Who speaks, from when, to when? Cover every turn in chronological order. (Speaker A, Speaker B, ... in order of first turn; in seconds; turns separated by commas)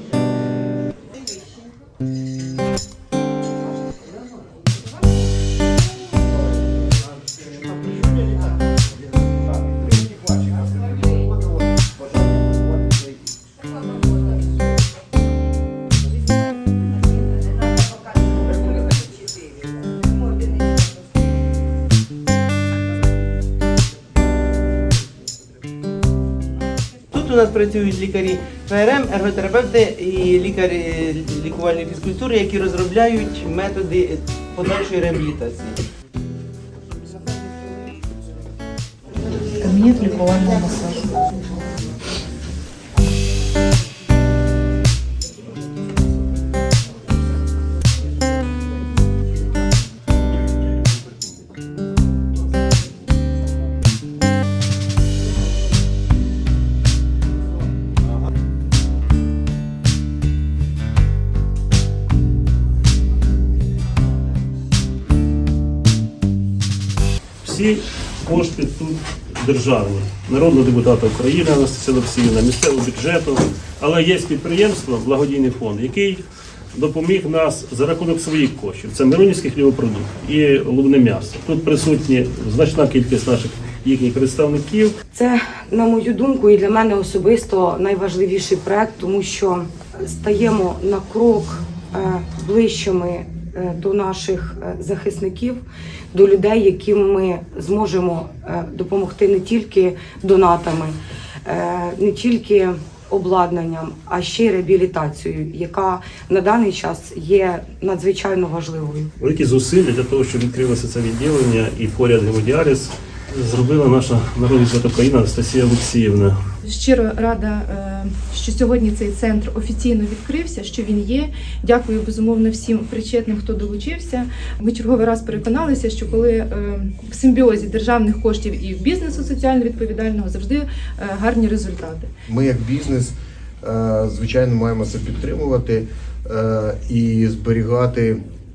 Speaker A: 27.1-35.9, Speaker B: 39.5-41.1, Speaker C: 67.4-76.2, Speaker C: 76.7-85.0, Speaker D: 85.1-95.6, Speaker D: 96.1-101.0, Speaker D: 101.5-109.1, Speaker C: 109.2-116.4, Speaker B: 116.6-132.1, Speaker E: 132.3-138.2